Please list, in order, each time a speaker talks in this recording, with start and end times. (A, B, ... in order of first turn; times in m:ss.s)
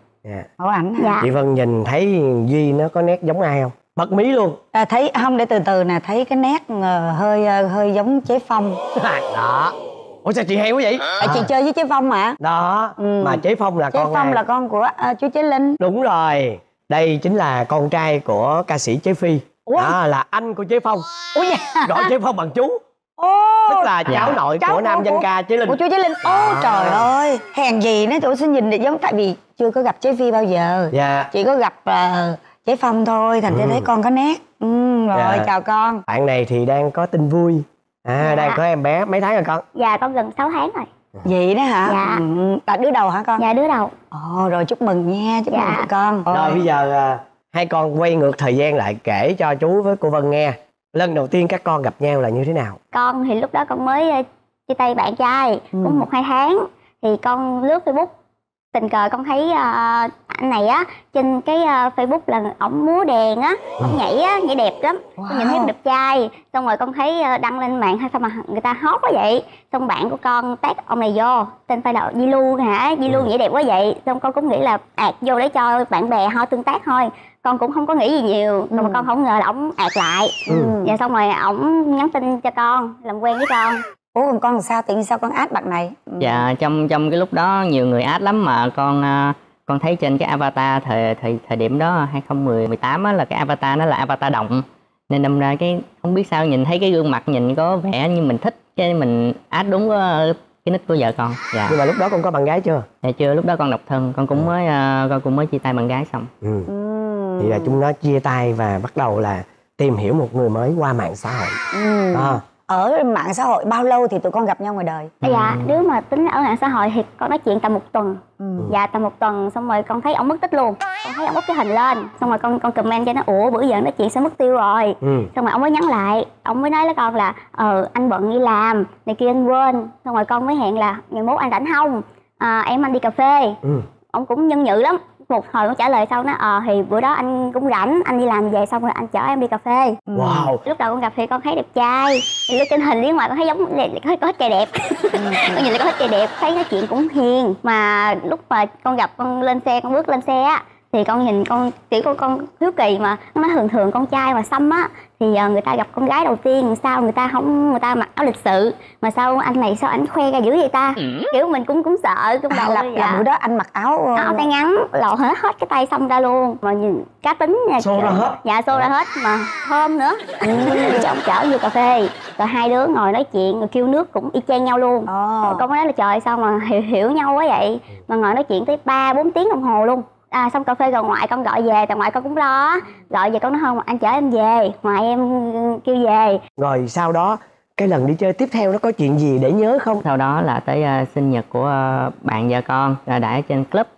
0:00.6-0:01.1 A
0:01.0-0:01.3 B
0:01.2-0:04.6 C
0:04.7-0:08.8 A
0:09.0-0:09.7 C
0:10.2-0:11.5 C
0:11.2-0:12.4 A
0:12.4-0:14.4 C
0:13.0-0:15.8 A
0:15.8-0:21.1 C
0:21.4-0:22.1 A
0:21.8-0:22.8 C
0:23.2-0:36.0 A
0:23.6-0:27.1 C
0:30.9-0:31.3 C
0:33.5-0:33.8 C
0:35.1-0:35.5 C
0:36.1-0:39.6 C
0:38.2-0:38.6 B
0:39.7-0:40.9 B
0:41.2-0:43.4 A
0:41.9-0:42.2 B
0:43.4-0:43.9 B
0:44.1-0:46.6 A
0:45.5-0:45.9 B
0:46.3-0:52.8 C
0:52.9-0:58.1 B
0:55.8-0:56.0 A
0:58.7-1:23.8 B
1:05.2-1:05.7 A
1:18.7-1:19.0 A
1:20.5-1:20.9 A
1:20.5-1:20.7 C
1:24.1-1:26.5 A
1:26.2-1:41.8 D
1:41.7-1:42.8 C
1:43.0-1:46.3 D
1:46.4-1:46.7 C
1:46.7-1:47.8 A
1:47.4-1:51.6 C
1:51.7-1:55.1 A
1:52.1-1:52.4 C
1:55.2-2:13.6 B
1:55.2-1:55.6 C
1:58.4-1:58.7 A
2:05.0-2:05.3 C
2:14.1-2:20.0 B
2:20.1-2:20.5 A
2:20.1-2:20.6 C
2:20.6-2:43.2 B
2:25.1-2:25.7 A
2:41.0-2:41.3 D
2:42.5-2:44.4 A
2:44.2-3:06.4 B
2:47.8-2:48.8 C
2:50.4-2:51.0 A
2:55.1-2:55.6 A
3:06.6-3:10.0 C
3:10.0-3:13.9 D